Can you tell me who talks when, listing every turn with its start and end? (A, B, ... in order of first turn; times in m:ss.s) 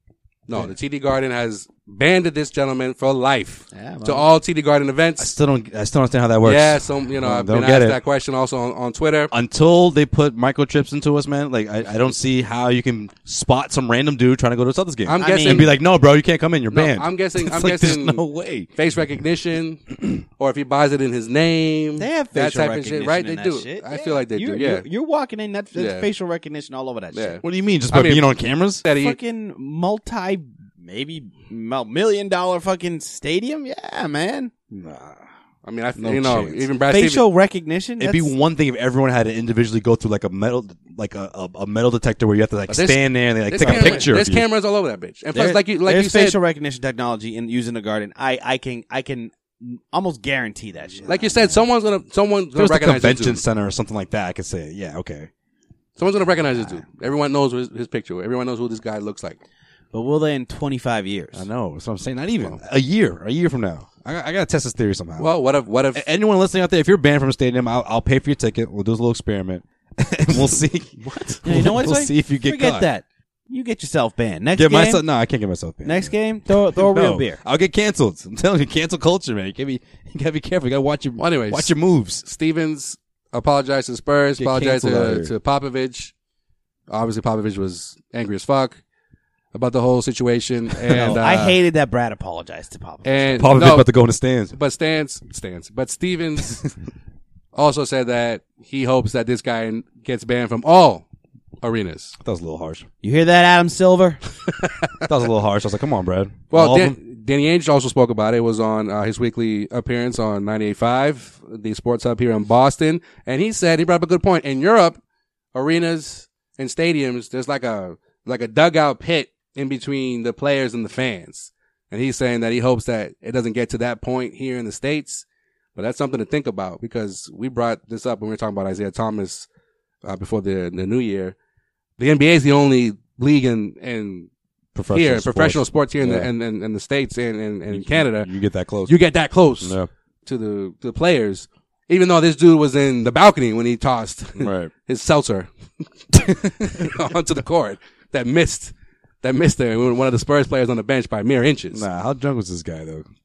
0:00.5-0:05.3 A
0:03.7-0:04.3 B
0:05.2-0:08.0 C
0:06.4-0:09.3 A
0:09.3-0:18.7 C
0:15.0-0:15.7 A
0:15.2-0:15.7 B
0:16.7-0:18.2 A
0:18.7-0:24.8 A
0:22.0-0:27.4 B
0:25.7-0:26.1 A
0:27.1-0:28.3 A
0:27.4-0:28.8 C
0:28.8-0:29.2 A
0:28.9-0:34.5 B
0:34.7-0:35.2 C
0:35.6-0:37.2 A
0:36.0-0:36.7 C
0:36.9-0:38.3 B
0:38.0-0:44.4 C
0:42.7-0:46.4 A
0:43.6-0:44.1 B
0:45.3-0:51.6 B
0:51.0-0:53.4 A
0:52.5-0:55.3 C
0:56.0-0:59.4 A
0:59.9-1:01.4 B
1:01.3-1:05.3 C
1:05.2-1:06.1 A
1:05.9-1:12.9 C
1:11.0-1:11.4 A
1:11.4-1:15.0 B
1:14.5-1:22.2 C
1:15.8-1:17.4 B
1:21.2-1:21.7 A
1:22.2-1:26.1 A
1:24.4-1:25.3 C
1:26.9-1:28.8 A
1:29.5-1:31.5 A
1:30.8-1:31.5 C
1:30.9-1:33.5 B
1:33.0-1:33.9 A
1:33.4-1:34.5 C
1:34.5-1:36.6 A
1:37.5-1:41.0 A
1:41.6-1:42.1 A
1:42.2-1:42.9 C
1:43.0-1:44.2 B
1:45.0-1:47.0 C
1:46.5-1:55.0 A
1:55.5-2:05.2 A
2:05.8-2:09.5 A
2:10.0-2:11.4 A
2:12.0-2:14.3 A
2:14.7-2:16.3 C
2:14.9-2:18.3 A
2:17.7-2:19.0 C
2:18.8-2:25.5 A
2:19.6-2:19.9 C
2:24.4-2:24.7 C
2:26.1-2:31.8 A
2:26.2-2:26.9 C
2:31.7-2:33.1 C